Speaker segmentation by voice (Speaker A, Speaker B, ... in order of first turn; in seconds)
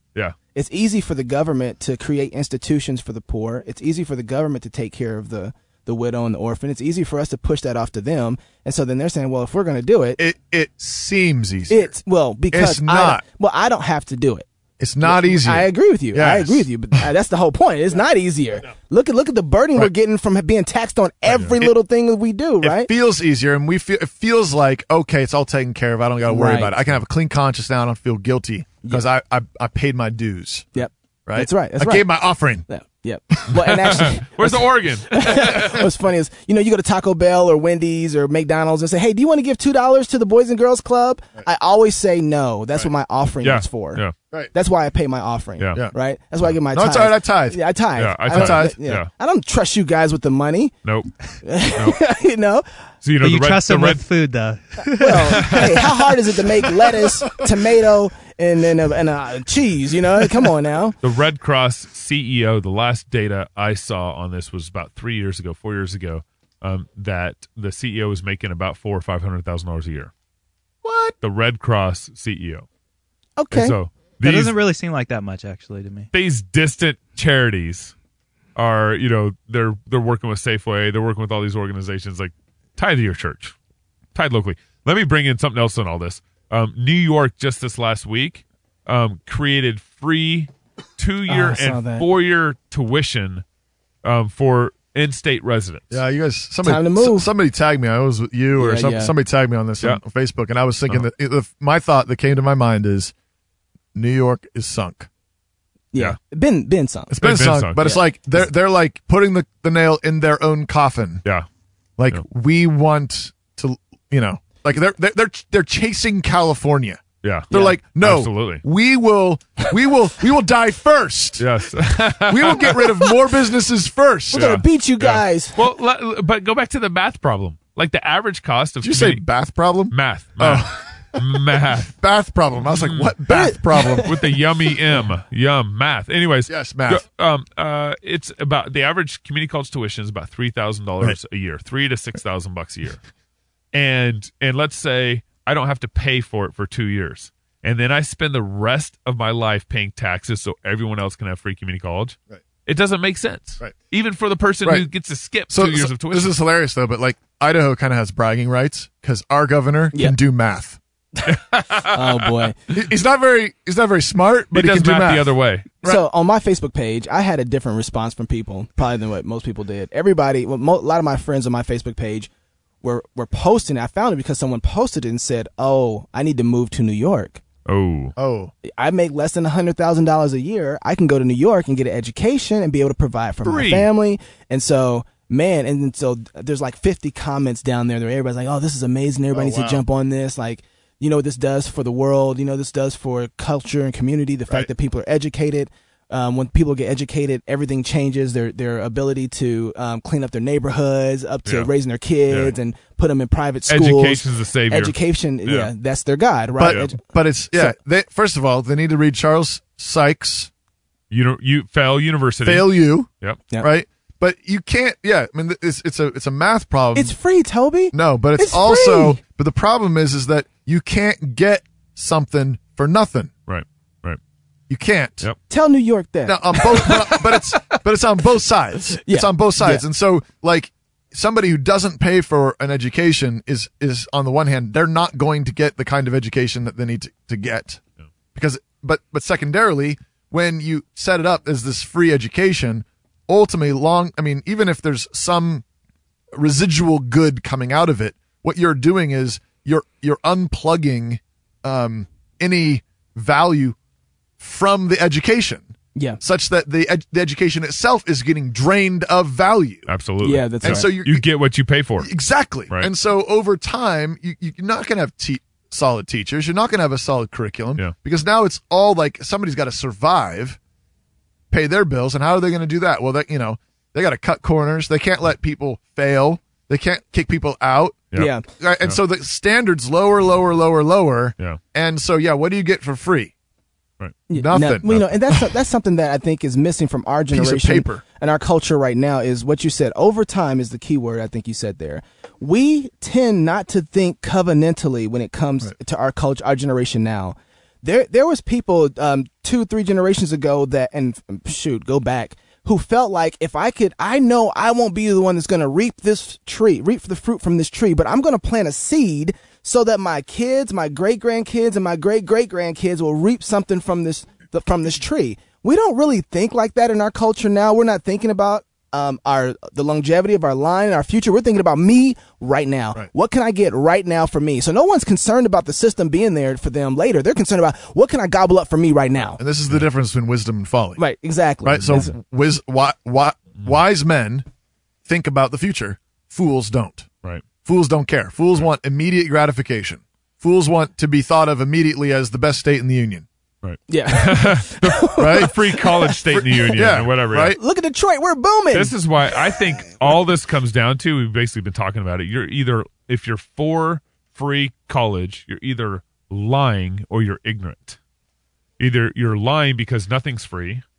Speaker A: 0.6-10.2, 11.7-14.5, 15.0-22.9, 26.3-26.7, 30.8-44.0, 44.5-50.8, 51.4-52.6, 55.0-61.0, 70.8-71.1, 73.4-73.8, 91.3-92.1, 96.6-97.3, 98.6-99.1, 105.9-107.2, 107.8-108.0, 117.5-117.8, 124.3-125.6, 133.3-134.1, 161.9-162.6, 165.8-172.3, 172.8-177.4, 178.7-207.0, 216.9-219.2, 225.5-227.3, 229.1-229.8, 260.2-260.9, 278.2-278.4, 284.3-329.4, 331.0-332.1, 343.9-346.1, 347.5-349.0
Speaker B: 10.2-11.9, 12.5-13.2, 14.8-16.7, 22.6-32.6, 33.6-34.0, 46.7-47.6, 48.2-48.8, 95.9-103.1, 104.0-105.1, 107.1-111.2, 112.0-121.5, 122.2-124.5, 128.8-131.2, 132.0-134.2, 136.5-137.0, 155.5-160.8, 162.7-166.0, 178.2-178.5, 189.3-189.8, 206.6-210.5, 212.4-217.2, 217.9-223.3, 224.7-225.3, 226.2-237.8, 238.3-245.6, 246.3-253.8, 254.4-259.9, 260.6-261.2, 262.0-270.6, 271.5-278.1, 278.6-283.3, 284.3-285.2, 287.3-288.0, 329.4-331.0, 331.6-334.4, 335.1-337.1, 337.6-343.2, 345.2-345.6, 346.3-347.6
Speaker C: 21.3-21.6, 33.7-35.9, 43.4-44.1, 48.0-49.1, 50.9-51.1, 51.7-52.0, 53.0-54.1, 55.2-56.0, 61.0-70.1, 71.2-72.7, 73.5-74.6, 76.1-77.9, 78.6-83.5, 84.2-93.4, 94.0-96.0, 107.2-107.9, 117.2-118.6, 121.4-123.0, 124.3-129.2, 129.9-131.9, 132.7-133.2, 134.0-143.0, 143.7-156.4, 161.3-162.3, 164.5-165.7, 177.7-178.1, 183.4-183.9, 201.5-201.7, 202.3-202.5, 203.7-205.7, 206.6-206.9, 211.1-213.4, 223.5-224.2, 259.9-262.1, 343.6-347.6, 348.7-358.0, 358.8-360.8
Speaker D: 53.2-55.6, 74.2-76.1